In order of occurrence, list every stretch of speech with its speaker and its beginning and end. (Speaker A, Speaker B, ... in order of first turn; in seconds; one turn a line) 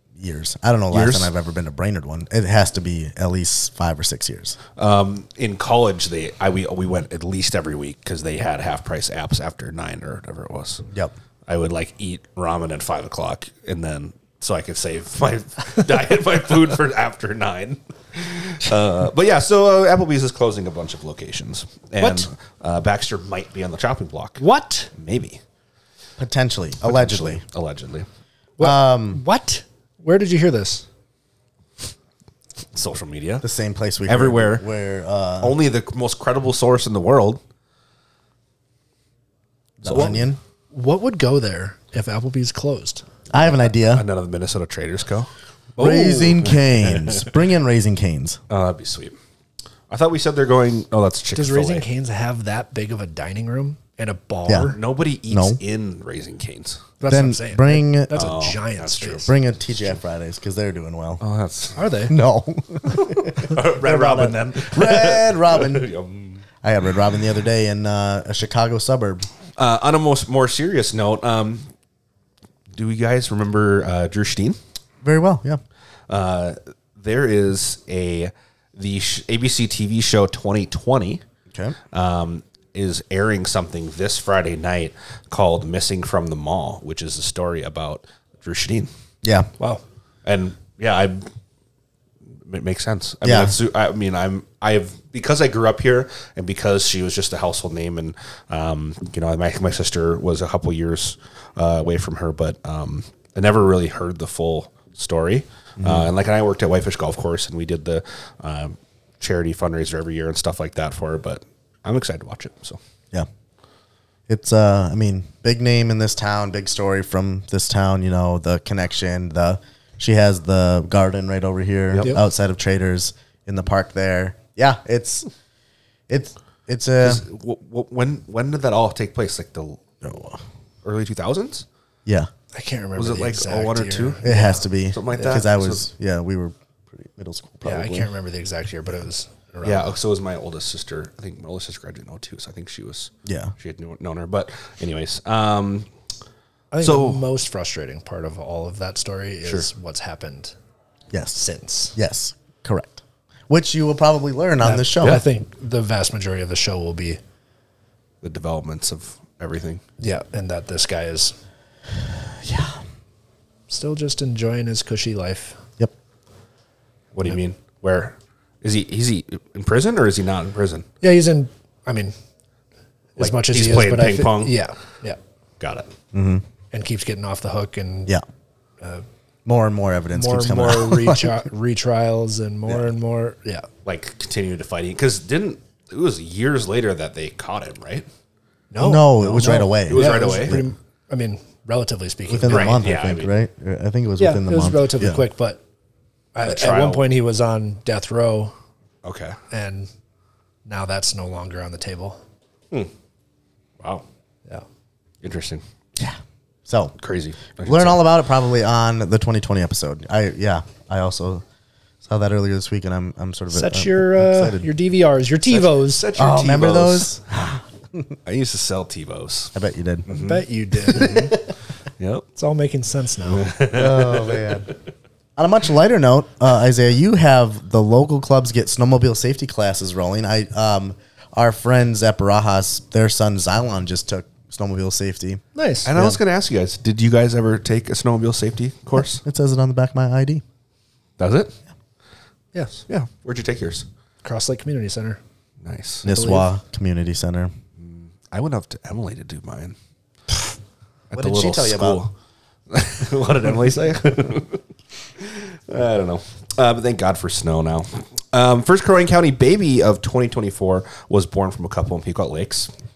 Speaker A: 0.2-4.6
Speaker B: 0.9-1.3
Speaker B: 4.8-10.8
Speaker B: 11.5-24.4
Speaker C: 22.0-22.3
Speaker C: 24.4-24.9
Speaker B: 24.9-25.4
Speaker A: 26.2-27.4
Speaker B: 26.9-28.1
Speaker C: 28.6-30.8
Speaker A: 28.6-29.2
Speaker B: 32.7-33.4
Speaker A: 33.4-35.5
Speaker B: 34.1-34.6
Speaker B: 35.4-37.4
Speaker A: 39.8-40.4
Speaker B: 39.8-40.3
Speaker C: 40.7-43.0
Speaker A: 43.3-44.0
Speaker B: 43.9-47.2
Speaker A: 45.8-48.4
Speaker B: 48.5-49.1
Speaker B: 49.9-51.8
Speaker C: 51.3-54.8
Speaker A: 54.5-54.7
Speaker B: 54.7-56.9
Speaker A: 55.3-55.6
Speaker C: 57.0-59.3
Speaker A: 57.1-58.2
Speaker B: 58.1-59.2
Speaker A: 59.2-61.2
Speaker B: 61.2-61.8
Speaker C: 61.8-62.1
Speaker A: 62.1-65.9
Speaker B: 63.0-66.4
Speaker A: 66.6-69.3
Speaker B: 69.6-71.6
Speaker B: 72.7-74.6
Speaker A: 75.0-75.6
Speaker B: 76.1-81.2
Speaker A: 81.5-81.8
Speaker B: 81.9-88.9
Speaker A: 89.2-89.5
Speaker B: 90.2-91.3
Speaker B: 92.5-112.8
Speaker A: 93.2-93.5
Speaker A: 105.8-106.1
Speaker A: 114.3-125.3
Speaker A: 126.1-127.2
Speaker B: 127.0-129.8
Speaker A: 130.0-130.4
Speaker B: 130.8-131.6
Speaker C: 132.5-135.4
Speaker B: 132.9-134.3
Speaker A: 134.2-138.1
Speaker B: 134.9-135.8
Speaker C: 137.6-139.9
Speaker B: 139.6-145.9
Speaker A: 143.2-143.5
Speaker C: 146.7-150.5
Speaker B: 146.8-147.2
Speaker A: 151.1-151.4
Speaker C: 151.3-151.9
Speaker A: 151.9-155.2
Speaker C: 154.6-157.2
Speaker B: 158.2-159.8
Speaker C: 160.0-161.3
Speaker A: 162.4-162.8
Speaker C: 163.7-165.6
Speaker B: 167.1-170.9
Speaker C: 171.0-172.1
Speaker C: 173.2-175.2
Speaker B: 173.2-174.6
Speaker B: 175.6-175.9
Speaker A: 176.1-176.4
Speaker C: 176.7-178.2
Speaker A: 179.4-181.3
Speaker C: 180.1-183.7
Speaker B: 183.8-188.1
Speaker C: 188.7-192.8
Speaker A: 188.8-190.7
Speaker B: 189.9-190.6
Speaker A: 192.3-195.2
Speaker B: 192.5-193.3
Speaker C: 194.2-195.6
Speaker C: 196.3-198.5
Speaker B: 196.4-197.0
Speaker B: 199.0-199.4
Speaker C: 199.5-199.9
Speaker C: 200.7-202.2
Speaker B: 205.2-205.6
Speaker A: 206.0-206.9
Speaker B: 207.0-208.1
Speaker A: 207.6-211.4
Speaker A: 212.0-214.7
Speaker C: 213.5-216.1
Speaker B: 215.5-217.2
Speaker A: 216.2-218.1
Speaker B: 218.2-219.5
Speaker A: 219.5-220.1
Speaker B: 220.1-221.3
Speaker C: 220.1-221.3
Speaker A: 220.9-221.4
Speaker B: 222.0-222.2
Speaker C: 222.3-223.5
Speaker B: 223.3-224.6
Speaker A: 223.7-224.7
Speaker A: 225.4-235.4
Speaker C: 235.5-235.9
Speaker B: 235.8-239.2
Speaker A: 235.9-236.2
Speaker A: 239.0-240.4
Speaker B: 241.2-241.5
Speaker C: 242.5-242.8
Speaker B: 242.9-243.8
Speaker C: 244.2-245.2
Speaker B: 245.6-246.1
Speaker A: 246.0-247.5
Speaker C: 246.1-246.5
Speaker B: 247.8-249.8
Speaker B: 250.3-250.5
Speaker B: 251.1-252.1
Speaker A: 251.1-252.0
Speaker B: 252.7-254.6
Speaker B: 255.2-262.7